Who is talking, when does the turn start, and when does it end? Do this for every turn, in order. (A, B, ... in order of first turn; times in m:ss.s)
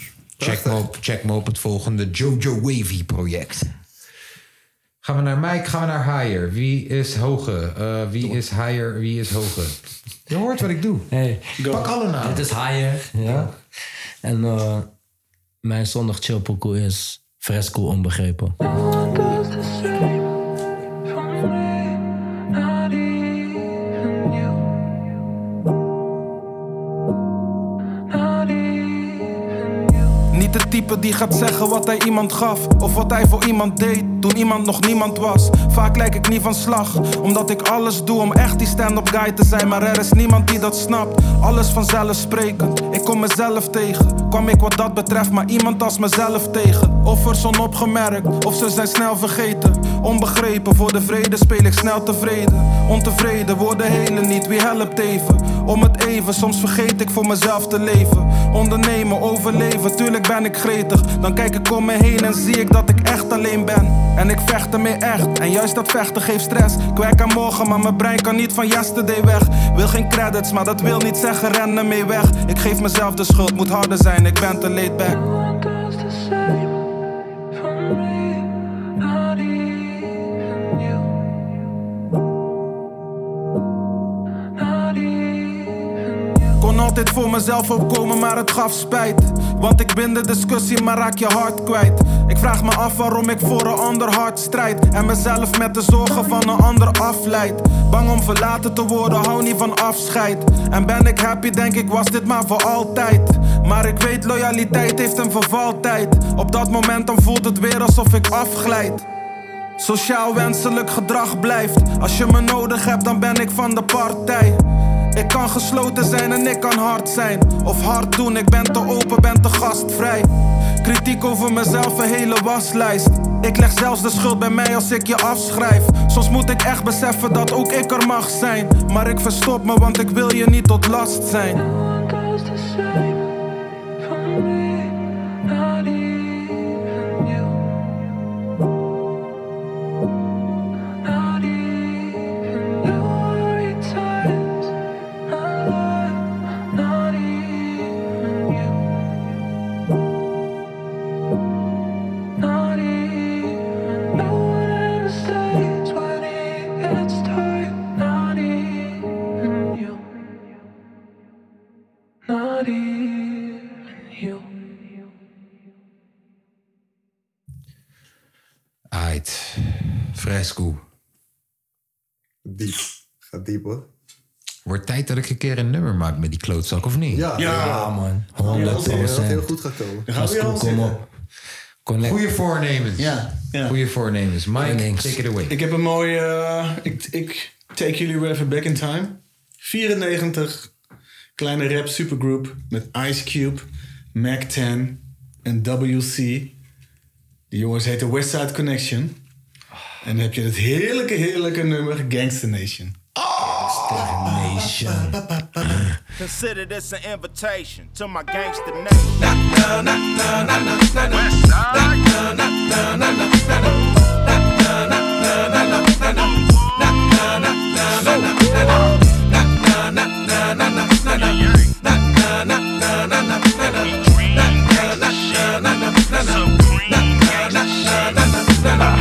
0:00.4-0:00.8 A
0:00.4-0:03.7 B
0:05.0-0:09.8 B
0:10.3-0:11.1 B
0:11.1-0:11.6 C
0:11.6-0:11.9 D
0:11.7-0:12.5 B
0:12.2-0:13.5 C
0:14.2-0:14.9 C
0:15.6-0:18.6 C
0:30.3-1:15.2 E
1:26.6-1:49.0 E
1:49.8-1:54.6 E
1:55.2-2:00.3 E
2:00.8-2:11.6 E
2:48.9-2:50.8 B
2:52.4-2:53.8 A
2:54.6-2:57.3 B
2:57.1-3:00.1 A
2:57.4-2:57.9 D
2:57.4-2:59.5 C
2:58.4-2:59.1 D
3:00.0-3:01.0 D
3:00.2-3:01.0 C
3:01.8-3:02.2 C
3:02.0-3:05.6 B
3:03.0-3:03.8 D
3:04.6-3:05.2 C
3:05.5-3:10.7 D
3:11.4-3:16.5 D
3:17.5-3:19.2 D
3:20.0-3:22.9 D
3:23.2-3:24.6 B
3:23.7-3:25.0 C
3:24.3-3:25.8 D
3:26.2-3:29.3 F
3:38.0-3:38.3 F